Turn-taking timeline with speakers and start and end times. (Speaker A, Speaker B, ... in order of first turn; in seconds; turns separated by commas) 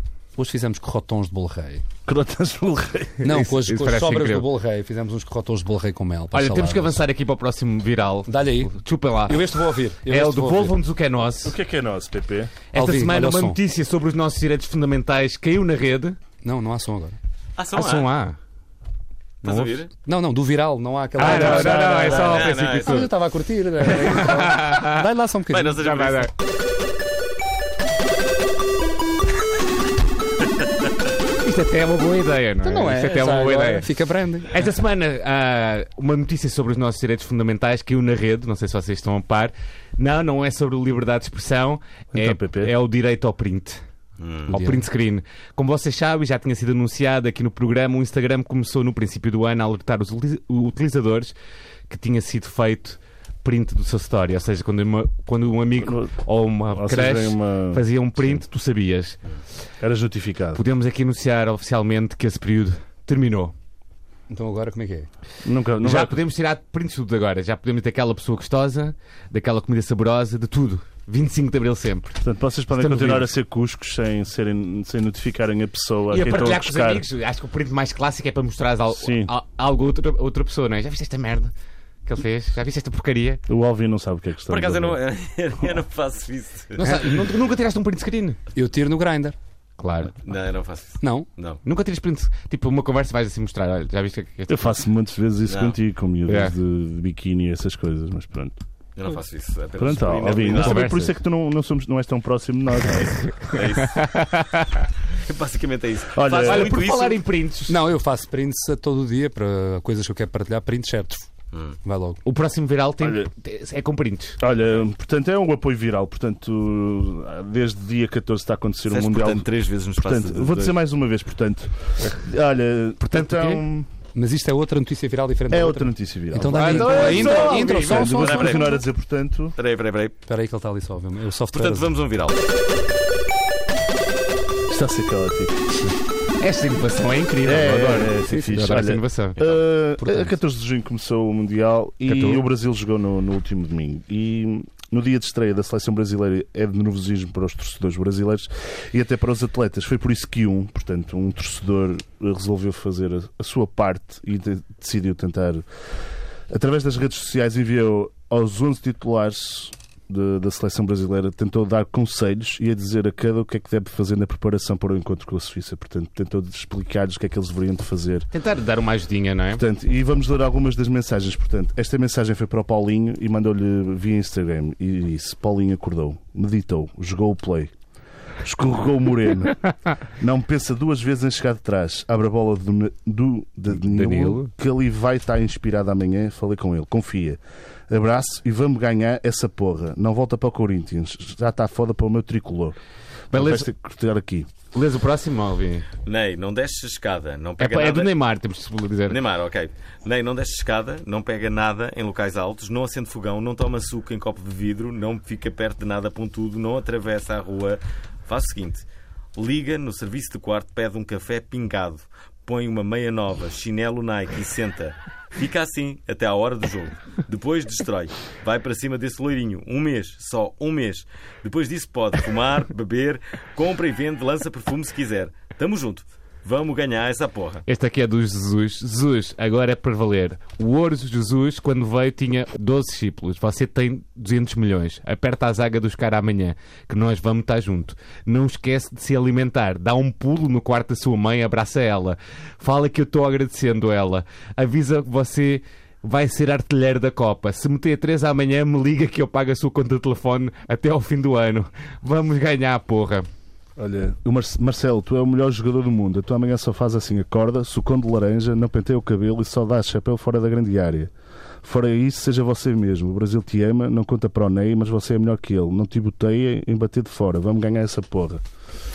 Speaker A: 0.4-1.9, Speaker B: 2.1-3.3, Speaker A: 3.2-7.0, Speaker C: 3.2-4.5, Speaker C: 6.3-9.4, Speaker A: 8.3-10.8, Speaker C: 10.1-11.6, Speaker B: 11.4-12.6, Speaker C: 12.7-16.2, Speaker A: 12.7-13.6, Speaker A: 16.4-17.2, Speaker D: 17.6-18.1, Speaker C: 17.8-18.4, Speaker D: 19.4-19.9, Speaker C: 19.4-19.7, Speaker A: 20.1-25.9, Speaker C: 21.2-23.1, Speaker B: 21.2-22.4, Speaker D: 22.1-23.1, Speaker C: 23.9-25.0, Speaker D: 25.5-26.3, Speaker C: 25.7-26.3, Speaker C: 31.4-33.9, Speaker A: 32.6-34.6, Speaker C: 34.5-43.8, Speaker B: 42.1-42.7, Speaker D: 44.2-44.5, Speaker C: 44.5-51.3, Speaker A: 44.5-44.9, Speaker C: 51.9-59.2, Speaker B: 55.8-56.1, Speaker B: 56.7-58.4, Speaker B: 59.8-60.6, Speaker C: 60.5-63.5, Speaker A: 64.3-65.1, Speaker B: 65.4-66.2, Speaker C: 65.8-73.3, Speaker B: 72.2-77.0, Speaker C: 76.1-81.5, Speaker B: 79.0-79.3, Speaker C: 82.0-83.4, Speaker B: 83.5-85.0, Speaker D: 84.5-86.9, Speaker C: 86.8-88.4, Speaker A: 88.5-89.4, Speaker C: 89.8-90.2, Speaker D: 90.2-91.6, Speaker A: 91.0-91.3, Speaker C: 91.7-94.8, Speaker B: 94.5-98.6, Speaker D: 95.5-95.8, Speaker C: 96.3-96.5, Speaker D: 99.0-100.9, Speaker B: 99.8-103.2, Speaker C: 100.5-101.2, Speaker C: 103.2-104.8, Speaker D: 103.5-104.1, Speaker D: 105.1-107.2, Speaker B: 106.1-106.8, Speaker C: 106.4-107.8, Speaker A: 107.7-111.3, Speaker D: 111.5-111.8, Speaker A: 111.8-112.2, Speaker C: 112.2-114.4, Speaker B: 113.0-113.3, Speaker B: 114.4-123.9, Speaker D: 118.9-120.8, Speaker C: 123.0-123.6, Speaker A: 124.1-128.8, Speaker B: 125.5-129.6, Speaker C: 126.5-128.4, Speaker D: 128.1-128.8, Speaker D: 129.6-130.2, Speaker A: 130.3-131.9, Speaker D: 131.5-132.4, Speaker B: 134.7-135.8, Speaker C: 136.4-139.5, Speaker B: 137.4-155.7, Speaker A: 140.0-140.4, Speaker C: 142.1-142.4, Speaker B: 156.5-168.3, Speaker C: 168.3-169.6, Speaker B: 169.6-177.7, Speaker B: 178.4-192.8, Speaker C: 183.7-184.5, Speaker C: 193.3-193.7, Speaker B: 193.3-194.5, Speaker C: 194.7-195.9, Speaker D: 196.0-198.1, Speaker C: 197.6-199.2, Speaker D: 199.1-227.7, Speaker C: 227.7-253.3, Speaker B: 253.8-261.1, Speaker B: 261.6-268.4